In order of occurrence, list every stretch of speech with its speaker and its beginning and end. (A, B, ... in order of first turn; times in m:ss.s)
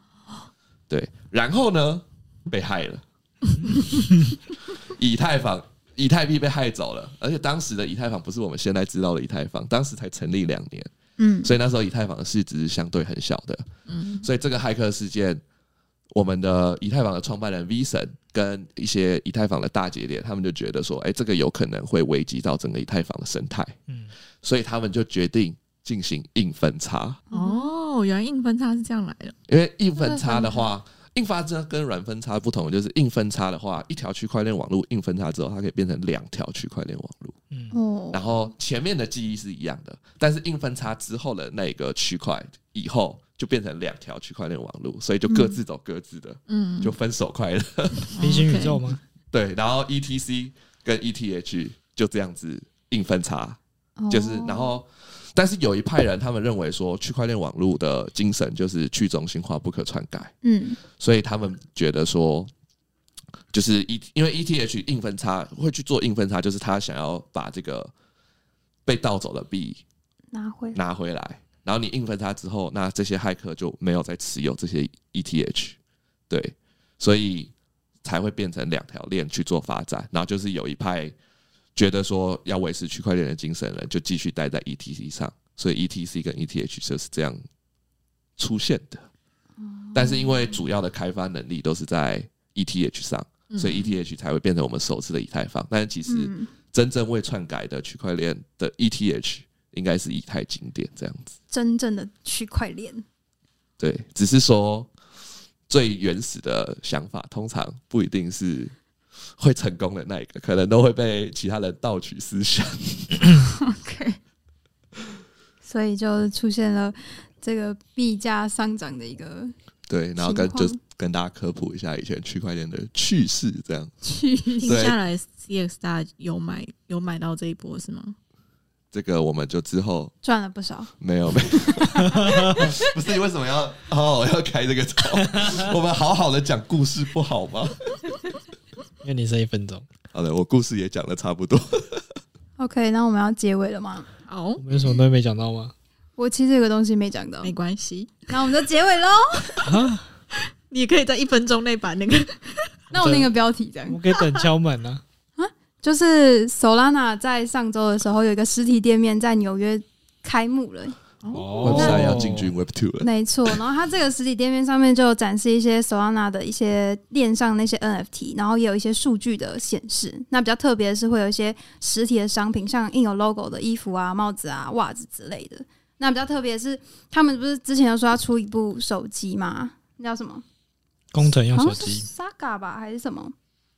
0:00.9-0:03.0 A
0:04.7-0:15.4 A
0:11.2-0:11.5 B
0:13.9-0:14.3 C
0:16.1-0:23.8 A
0:24.4-0:27.2 A
0:27.3-0:27.7 B
0:27.3-0:29.3 C
0:29.5-0:37.3 A
0:30.0-0:30.6 B
0:37.7-0:38.3 B
0:38.1-0:48.1 A
0:45.3-0:45.6 B
0:46.5-0:46.9 C
0:48.1-0:48.9 C
0:48.2-0:49.0 D
0:49.3-0:53.6 A
0:54.0-0:54.8 B
0:54.1-1:00.3 A
1:00.4-1:00.8 B
1:00.8-1:02.5 A
1:03.5-1:07.9 A
1:08.8-1:09.8 A
1:10.3-1:10.8 B
1:10.7-1:15.8 A
1:16.3-1:17.5 A
1:18.0-1:21.1 A
1:21.8-1:27.4 A
1:28.4-1:29.0 A
1:29.6-1:30.6 B
1:29.9-1:41.4 A
1:33.5-1:33.9 C
1:36.1-1:36.5 B
1:41.5-1:43.0 B
1:43.8-1:44.9 A
1:45.7-1:48.7 A
1:49.4-1:53.3 A
1:53.6-1:54.2 B
1:55.6-1:59.5 B
1:59.9-2:03.9 A
2:00.2-2:00.8 B
2:04.0-2:04.8 B
2:04.6-2:08.1 C
2:04.6-2:05.0 A
2:08.9-2:10.1 A
2:10.2-2:10.9 B
2:11.0-2:18.0 A
2:11.5-2:12.8 B
2:12.2-2:12.7 D
2:15.2-2:15.7 D
2:19.0-2:19.8 D
2:20.1-2:22.2 A
2:22.6-2:24.1 B
2:24.3-2:24.6 C
2:24.6-2:25.7 D
2:26.2-2:27.5 B
2:27.4-2:28.3 C
2:28.3-2:29.7 B
2:29.6-2:30.1 D
2:30.7-2:32.8 C
2:32.9-2:34.0 B
2:32.9-2:33.3 D
2:33.9-2:35.0 D
2:35.4-2:41.0 B
2:41.2-2:42.1 C
2:41.3-2:42.5 D
2:41.6-2:43.6 A
2:41.7-2:42.0 B
2:43.0-3:00.4 B
3:01.1-3:02.1 D
3:01.5-3:03.3 B